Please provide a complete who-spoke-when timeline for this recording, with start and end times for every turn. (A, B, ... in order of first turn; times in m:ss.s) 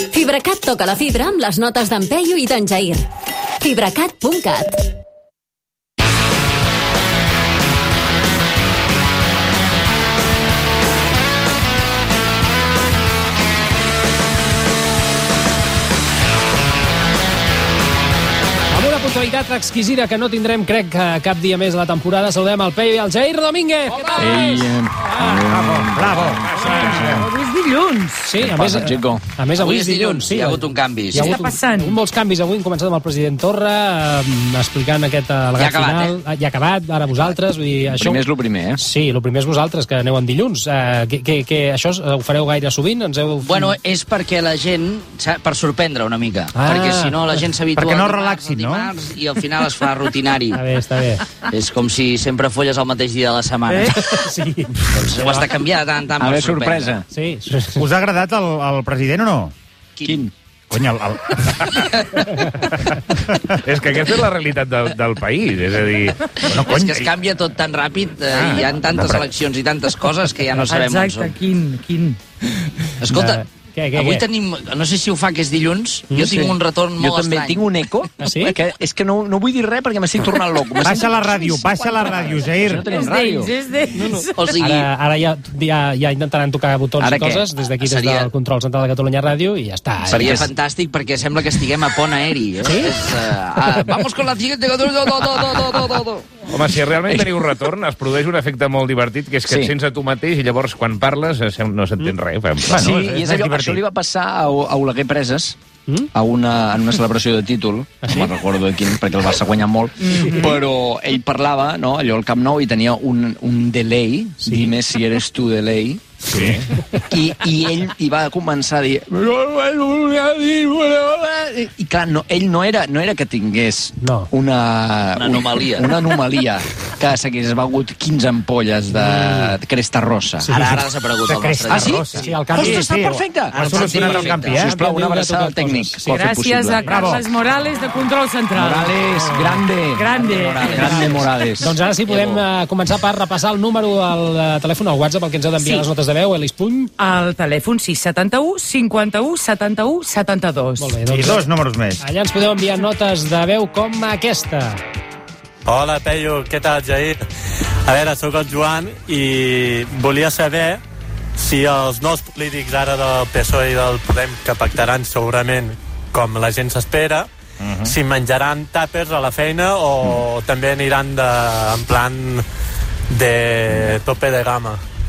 0:00.1-0:03.0 A
0:03.6-0:04.8 A
0:18.7-0:24.2 B
0:24.2-0:27.3 C
0:25.8-0:26.8 D
0:26.6-0:27.1 B
0:26.7-0:28.3 E
0:28.2-0:38.2 B
0:28.4-0:29.2 C
0:29.6-0:31.4 F
0:31.1-0:32.0 E
0:35.6-0:36.2 F
0:38.0-0:38.8 C
0:38.8-0:43.8 B
0:43.4-0:50.6 F
0:46.6-0:47.2 B
0:47.8-0:48.9 D
0:50.5-0:51.2 B
0:51.5-0:54.3 F
0:53.7-0:55.1 B
0:54.9-0:57.0 F
0:56.2-0:57.1 C
0:57.1-0:57.9 B
0:57.8-0:59.5 D
1:00.0-1:00.2 F
1:00.0-1:00.3 C
1:00.7-1:02.0 D
1:01.8-1:02.2 F
1:03.6-1:06.3 G
1:06.4-1:11.4 F
1:06.4-1:07.1 D
1:08.3-1:08.7 G
1:08.9-1:09.3 D
1:10.7-1:12.2 E
1:13.0-1:13.4 F
1:13.1-1:14.2 B
1:14.0-1:17.7 F
1:16.1-1:16.5 B
1:17.0-1:24.1 C
1:18.2-1:18.6 B
1:20.8-1:22.9 D
1:22.9-1:24.6 E
1:24.4-1:24.9 F
1:24.6-1:30.5 B
1:27.0-1:27.5 C
1:27.8-1:28.3 F
1:30.1-1:30.5 C
1:30.1-1:36.3 F
1:32.6-1:33.1 B
1:36.5-1:42.9 G
1:37.0-1:37.4 C
1:39.5-1:39.7 C
1:42.7-1:45.6 C
1:42.7-1:43.8 D
1:46.1-2:10.6 C
1:48.0-1:48.3 B
1:54.4-1:54.7 B
1:56.3-1:56.6 G
2:04.0-2:04.3 B
2:05.2-2:06.2 F
2:08.9-2:09.6 B
2:10.4-2:10.9 B
2:10.5-2:12.8 F
2:11.3-2:14.8 D
2:11.7-2:17.2 C
2:12.1-2:12.9 B
2:13.6-2:16.0 B
2:16.1-2:21.3 E
2:16.8-2:17.3 D
2:18.6-2:21.8 C
2:21.6-2:26.9 B
2:22.1-2:22.4 F
2:25.6-2:25.9 E
2:27.0-2:31.0 E
2:30.8-2:31.5 B
2:31.1-2:32.0 D
2:32.0-2:34.8 B
2:35.7-2:37.2 H
2:37.9-2:40.8 H
2:41.4-2:47.3 H
2:47.8-2:52.4 H
2:53.1-2:54.8 H